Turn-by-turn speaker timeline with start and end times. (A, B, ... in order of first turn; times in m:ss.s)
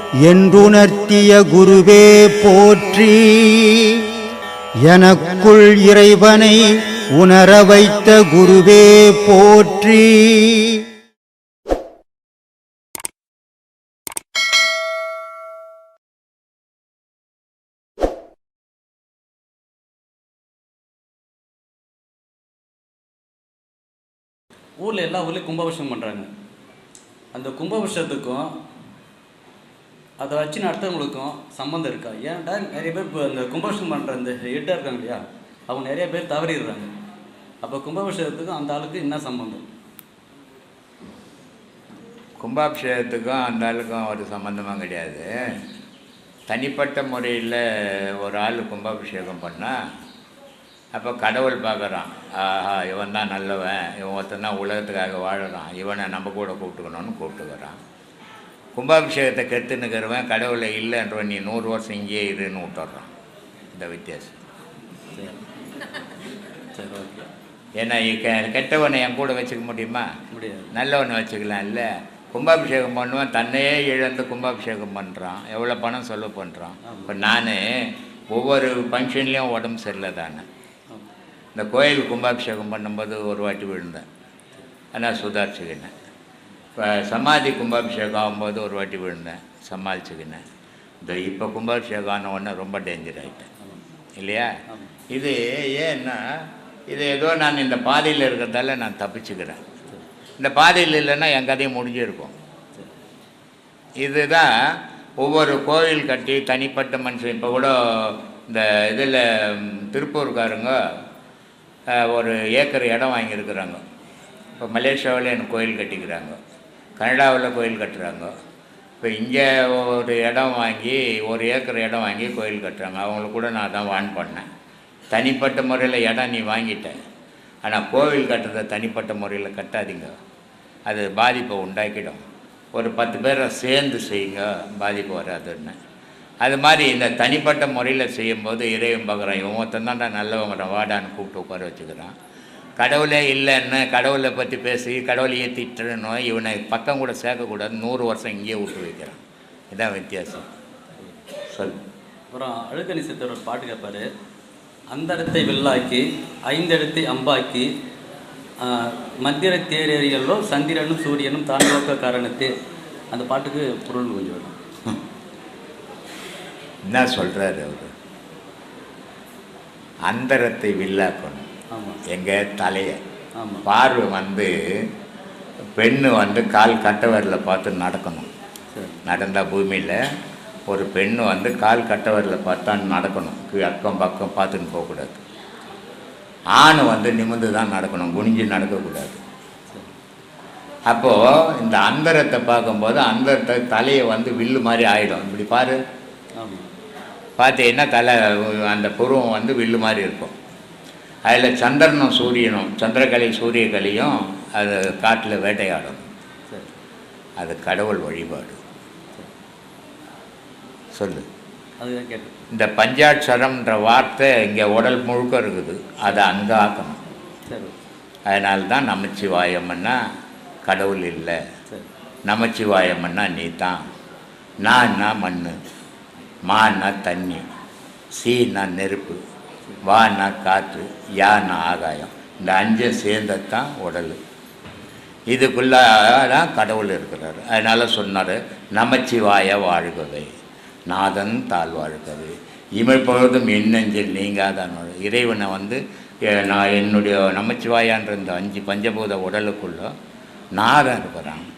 0:00.2-0:04.0 A
0:04.8-0:10.8 A
0:24.8-0:26.3 B
0:27.3-0:28.5 B
0:30.2-0:36.9 B
0:37.6-0:39.6 B
0:42.4-0:45.2 C
0:46.5-0:47.6 C
0:48.2-0:49.7 C
0:50.9-0:57.8 C
0:58.8-1:03.1 C
1:03.7-1:04.4 C
1:06.8-1:07.3 B
1:07.8-1:10.0 C
1:10.3-1:10.7 B
1:10.7-1:17.6 C
1:16.8-1:17.1 B
1:18.3-1:20.4 C
1:21.5-1:24.0 C
1:24.9-1:25.9 C
1:26.8-1:30.4 C
1:31.0-1:33.5 C
1:34.2-1:34.5 C
1:34.7-1:34.9 B
1:35.1-1:36.2 C
1:36.9-1:39.6 C
1:40.4-1:42.4 C
1:44.0-1:44.5 C
1:45.2-1:50.7 C
1:52.0-1:53.8 C
1:54.6-1:56.4 C
1:57.0-1:58.3 C
1:59.0-2:04.4 C
2:05.1-2:07.0 C
2:07.6-2:10.1 C
2:10.8-2:12.2 C
2:12.7-2:15.8 C
2:16.4-2:22.1 C
2:22.8-2:29.2 C
2:29.7-2:30.5 C
2:32.3-2:34.1 B
2:34.9-2:37.7 B
2:38.6-2:42.5 B
2:43.1-2:44.5 B
2:46.9-2:47.9 C
2:50.1-2:51.5 C
2:51.7-2:52.0 B
2:52.1-2:53.0 C
2:53.4-2:53.6 B
2:53.6-2:54.5 C
2:55.8-2:58.3 C
2:59.1-3:00.0 C
3:00.7-3:05.2 C
3:06.6-3:09.2 C
3:10.9-3:15.8 C
3:16.4-3:16.7 B
3:17.4-3:20.4 C
3:21.2-3:26.0 C
3:27.4-3:28.6 C
3:30.9-3:31.2 C
3:31.8-3:32.3 B
3:32.5-3:37.0 C
3:36.0-3:36.4 B
3:37.5-3:37.7 B
3:38.3-3:40.0 C
3:40.6-3:41.4 C
3:42.2-3:43.8 C
3:44.6-3:45.6 C
3:46.4-3:47.4 C
3:48.2-3:49.2 C
3:49.8-3:54.2 C
3:55.3-4:00.3 C
4:00.9-4:05.8 C
4:06.3-4:09.9 C
4:10.6-4:11.4 C